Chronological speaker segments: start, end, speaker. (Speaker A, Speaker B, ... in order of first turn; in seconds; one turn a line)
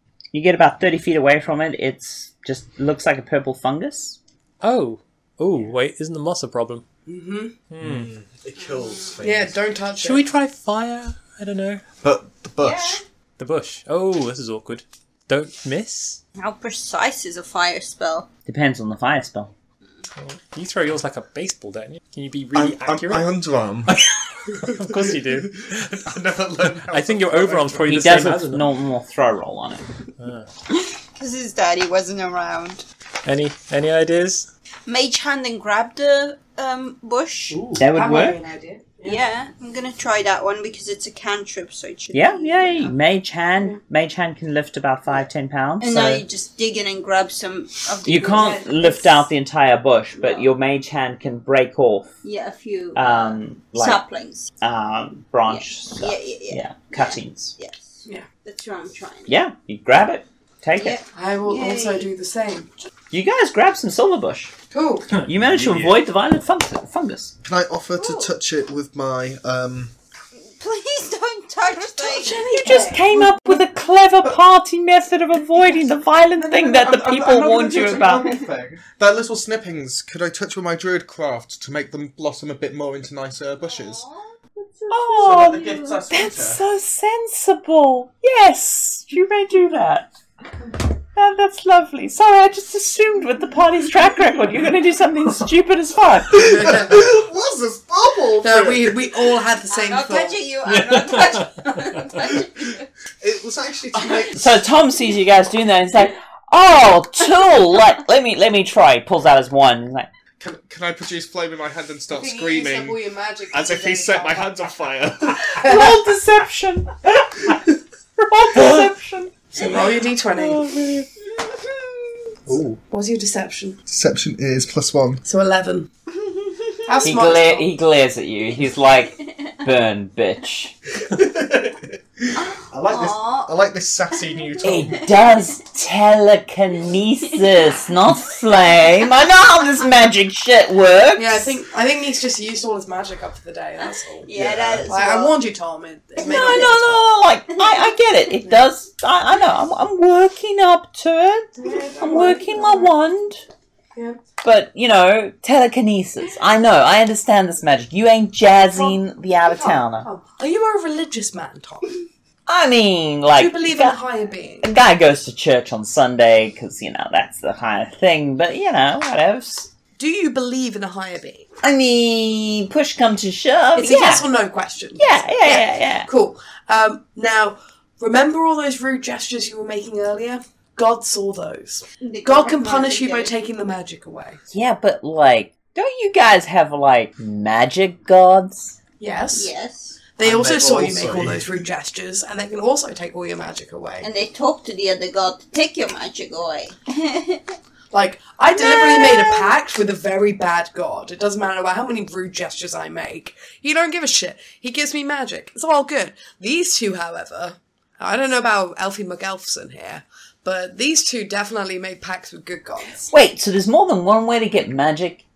Speaker A: 0.3-4.2
Speaker B: 4.6-6.8
Speaker C: 7.1-7.5
Speaker B: 7.7-8.1
Speaker D: 7.8-9.6
Speaker C: 9.2-10.3
Speaker B: 10.0-11.8
Speaker D: 12.0-13.0
Speaker E: 12.6-13.0
Speaker B: 13.4-16.2
Speaker E: 16.4-18.3
Speaker A: 18.4-19.5
Speaker B: 20.2-23.3
Speaker D: 22.5-24.0
Speaker B: 23.9-26.1
Speaker D: 24.5-28.0
Speaker B: 26.8-28.7
Speaker A: 27.9-29.9
Speaker B: 30.2-30.5
Speaker E: 30.8-32.8
Speaker B: 33.2-34.5
Speaker E: 34.9-37.6
Speaker B: 37.5-37.8
Speaker A: 37.8-38.4
Speaker C: 37.9-39.2
Speaker E: 39.0-42.9
Speaker A: 42.1-46.2
Speaker E: 45.8-49.0
Speaker A: 48.0-52.1
Speaker C: 48.3-49.0
Speaker E: 52.2-54.5
Speaker A: 52.9-54.0
Speaker A: 54.6-57.5
Speaker E: 55.5-59.3
Speaker A: 59.2-61.0
Speaker E: 60.8-62.1
Speaker C: 61.1-62.7
Speaker A: 63.1-64.5
Speaker C: 64.7-65.2
Speaker B: 65.2-65.9
Speaker A: 65.2-67.3
Speaker D: 67.4-69.9
Speaker E: 68.0-68.3
Speaker E: 70.5-72.5
Speaker A: 72.0-78.3
Speaker C: 72.0-73.3
Speaker D: 76.4-84.0
Speaker E: 83.6-86.0
Speaker A: 84.9-90.1
Speaker D: 85.2-86.6
Speaker A: 91.1-96.6
Speaker D: 96.3-99.3
Speaker C: 96.3-97.1
Speaker C: 98.4-100.5
Speaker E: 99.7-102.8
Speaker B: 100.7-101.9
Speaker D: 103.2-104.6
Speaker A: 104.3-110.1
Speaker D: 110.4-113.0
Speaker C: 112.1-114.6
Speaker D: 113.5-115.8
Speaker A: 115.6-117.6
Speaker C: 115.6-115.9
Speaker A: 118.1-119.3
Speaker C: 119.5-120.8
Speaker B: 122.5-122.8
Speaker C: 122.9-123.8
Speaker D: 123.9-125.2
Speaker C: 125.2-125.9
Speaker E: 126.2-127.1
Speaker C: 126.9-127.7
Speaker A: 127.0-130.7
Speaker D: 131.1-135.0
Speaker E: 132.4-133.5
Speaker E: 134.1-135.0
Speaker A: 134.6-141.5
Speaker C: 141.2-144.3
Speaker E: 144.2-145.4
Speaker D: 144.3-144.9
Speaker C: 144.8-147.1
Speaker E: 146.2-146.8
Speaker A: 146.2-153.4
Speaker C: 151.6-152.9
Speaker A: 154.4-160.1
Speaker C: 158.7-162.0
Speaker A: 162.5-164.0
Speaker C: 163.3-164.7
Speaker A: 164.6-169.7
Speaker C: 170.0-171.5
Speaker A: 171.6-174.3
Speaker C: 173.7-184.4
Speaker A: 175.0-176.1
Speaker E: 182.0-183.3
Speaker A: 184.5-188.8
Speaker C: 189.0-189.5
Speaker E: 189.3-190.0
Speaker C: 190.1-194.1
Speaker D: 190.2-191.6
Speaker E: 194.0-197.5
Speaker C: 197.9-213.1
Speaker E: 198.5-199.5
Speaker A: 213.1-215.2